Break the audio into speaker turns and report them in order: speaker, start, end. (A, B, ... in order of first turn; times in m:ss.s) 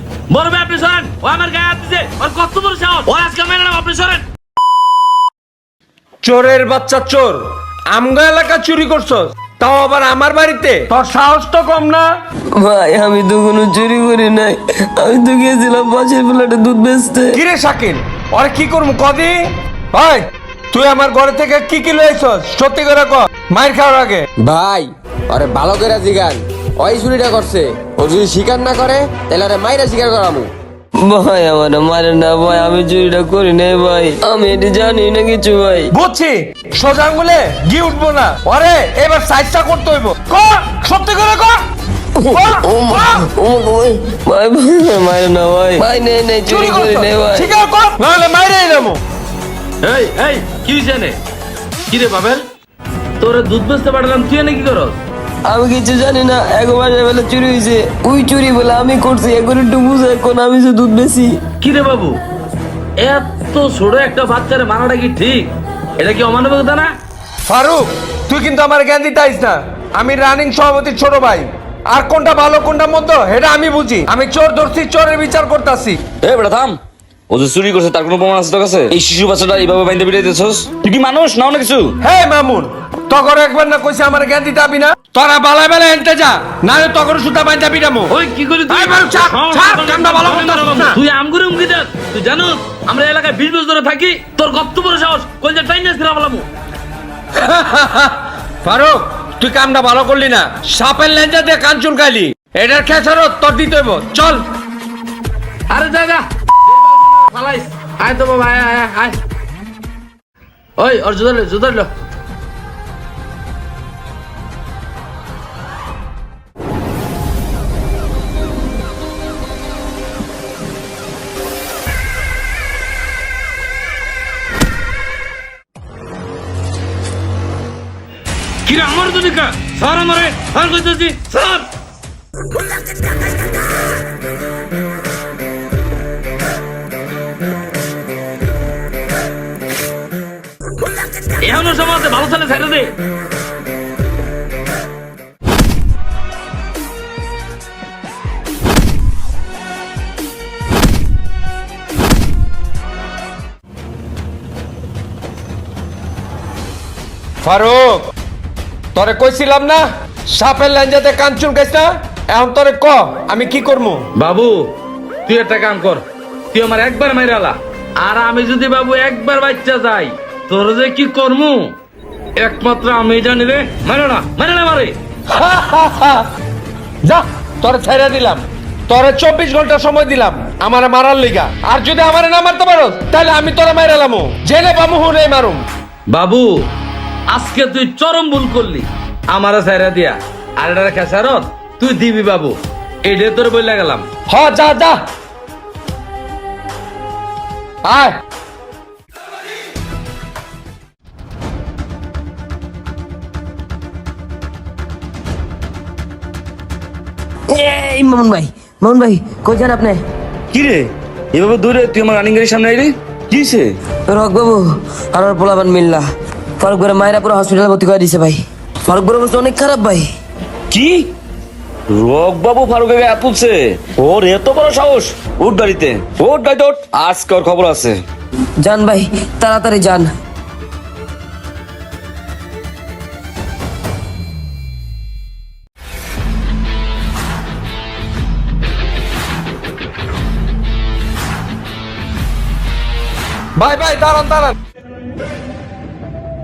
0:00.3-0:04.2 A
0:06.2-0:12.1 B
0:12.5-0:17.4 C
0:17.3-0:24.2 B
0:24.4-0:30.5 D
0:31.0-0:35.9 C
0:35.9-0:41.6 B
0:42.2-0:47.5 C
0:42.3-0:43.2 B
0:46.5-0:49.0 B
0:49.8-0:51.2 A
0:51.9-0:52.4 A
0:53.2-0:55.0 A
0:55.4-1:01.4 C
1:01.6-1:02.2 A
1:03.0-1:06.9 A
1:07.4-1:16.0 B
1:16.2-1:21.9 E
1:22.0-1:28.1 B
1:28.1-1:36.4 A
1:28.7-1:31.0 B
1:37.3-1:44.4 B
1:45.7-1:49.2 A
1:50.8-1:51.9 A
2:08.6-2:11.7 A
2:21.2-2:23.0 A
2:37.4-2:38.1 B
2:38.9-2:44.0 B
2:44.2-2:44.7 A
2:45.2-2:51.7 A
2:52.4-2:55.0 A
2:55.3-2:56.3 B
2:57.0-3:05.6 B
3:06.1-3:06.6 A
3:07.3-3:14.0 A
3:14.3-3:15.0 B
3:17.8-3:18.2 B
3:27.5-3:30.0 C
3:30.5-3:33.7 E
3:34.1-3:40.1 C
3:40.7-3:41.1 E
3:41.9-3:48.0 E
3:48.6-3:50.1 C
4:03.6-4:04.5 B